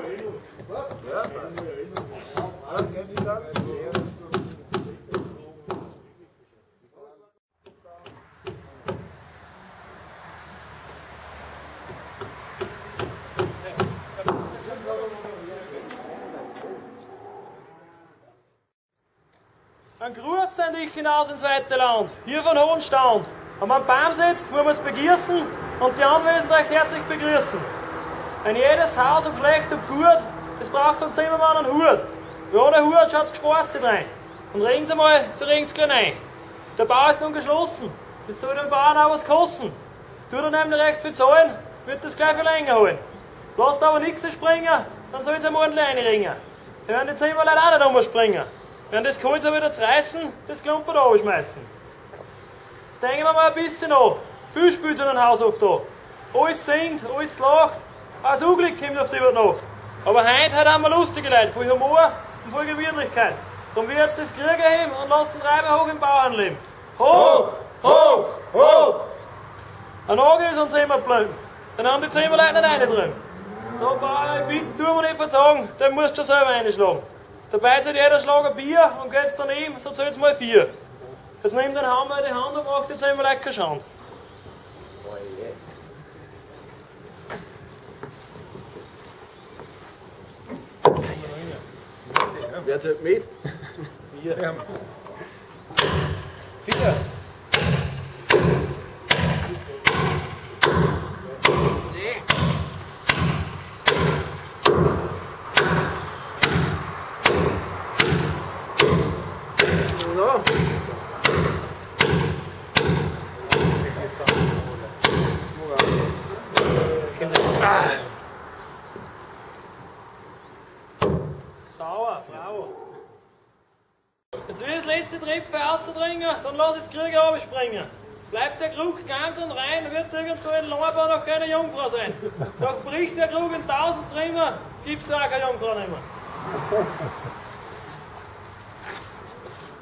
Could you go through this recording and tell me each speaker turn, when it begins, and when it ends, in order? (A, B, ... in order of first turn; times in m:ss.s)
0:01.0-0:01.6 A
0:02.7-0:03.8 A
0:20.0-0:27.7 B
0:28.4-0:36.2 B
0:36.8-0:51.7 B
0:52.9-1:09.1 B
1:10.1-1:13.2 B
1:13.8-1:20.7 B
1:21.4-1:23.9 B
1:25.1-1:25.6 A
1:31.0-1:31.6 B
1:32.5-1:33.4 A
1:34.1-1:34.6 B
1:50.1-1:50.4 A
1:57.1-1:58.0 B
2:01.7-2:02.8 B
2:04.4-2:16.1 B